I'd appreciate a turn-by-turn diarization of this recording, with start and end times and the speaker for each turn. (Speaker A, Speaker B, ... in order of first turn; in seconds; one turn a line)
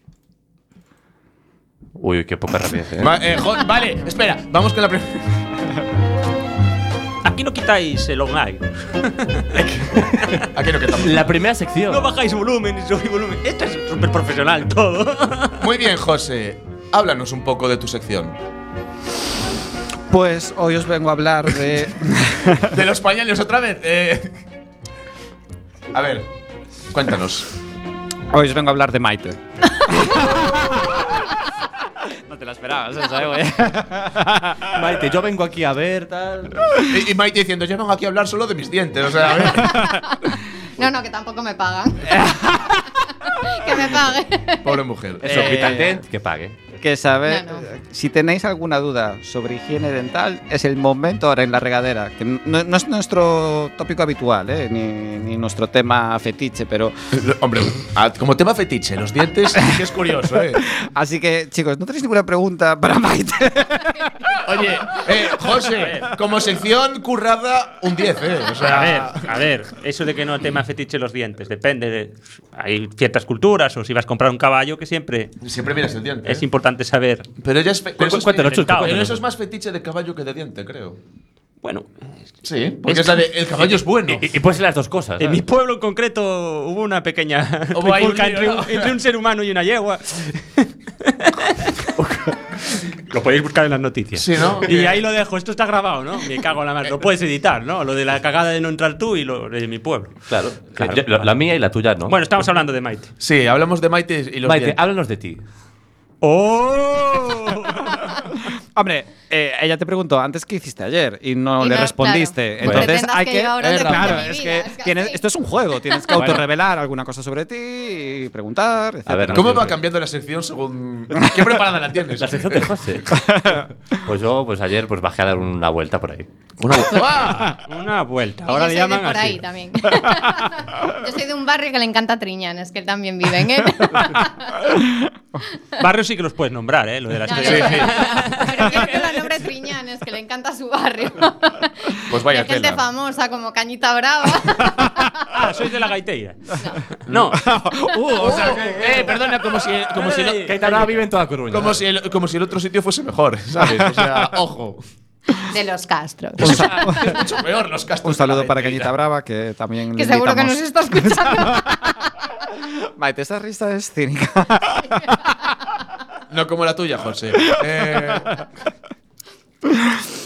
Speaker A: 2.0-3.2
Speaker B: 3.0-5.3
Speaker C: 7.2-9.6
Speaker A: 9.5-10.4
Speaker B: 10.5-11.3
Speaker A: 11.0-12.1
Speaker C: 11.9-15.6
Speaker B: 15.6-18.3
Speaker D: 20.1-22.8
Speaker B: 22.7-24.4
Speaker B: 25.9-26.3
Speaker B: 26.9-27.5
Speaker D: 28.3-31.2
Speaker D: 32.1-34.9
Speaker A: 34.7-36.7
Speaker B: 36.9-39.9
Speaker E: 39.6-42.3
Speaker D: 42.1-42.9
Speaker E: 43.2-44.8
Speaker B: 44.6-45.6
Speaker A: 45.2-46.6
Speaker D: 45.2-46.0
Speaker D: 46.8-56.9
Speaker E: 47.3-47.6
Speaker B: 57.1-60.6
Speaker D: 60.5-64.4
Speaker B: 64.4-69.3
Speaker C: 65.7-66.2
Speaker C: 68.6-75.3
Speaker B: 75.4-76.4
Speaker C: 76.2-77.3
Speaker B: 77.4-81.0
Speaker A: 78.0-79.2
Speaker C: 78.4-79.1
Speaker C: 81.6-81.9
Speaker B: 82.4-84.3
Speaker C: 82.8-83.2
Speaker A: 83.7-85.4
Speaker C: 85.2-91.8
Speaker B: 87.7-88.9
Speaker A: 92.0-92.3
Speaker C: 92.7-100.2
Speaker B: 94.1-95.0
Speaker A: 100.3-102.2
Speaker C: 100.7-101.3
Speaker C: 102.1-103.1
Speaker B: 103.2-104.8
Speaker A: 104.4-105.4
Speaker C: 106.2-107.9
Speaker D: 108.5-119.7
Speaker E: 111.6-115.2
Speaker A: 112.6-112.9
Speaker E: 115.9-116.1
Speaker A: 116.1-116.4
Speaker A: 119.1-119.8
Speaker B: 119.3-122.7
Speaker A: 122.2-126.3
Speaker D: 123.2-123.6
Speaker B: 126.6-127.6
Speaker C: 127.7-129.4
Speaker E: 128.4-134.6
Speaker D: 134.8-135.0
Speaker C: 135.8-139.3
Speaker E: 137.2-145.1
Speaker B: 137.3-138.0
Speaker B: 142.1-142.8
Speaker C: 145.2-146.5
Speaker C: 147.1-147.5
Speaker D: 147.1-149.0
Speaker B: 148.2-154.8
Speaker C: 148.3-149.3
Speaker C: 149.8-150.7
Speaker A: 150.4-151.8
Speaker D: 153.6-154.1
Speaker E: 155.4-156.9
Speaker D: 156.4-157.2
Speaker B: 156.4-158.9
Speaker D: 158.0-161.8
Speaker E: 159.9-162.0
Speaker D: 162.8-165.3
Speaker B: 166.3-168.4
Speaker D: 169.7-170.0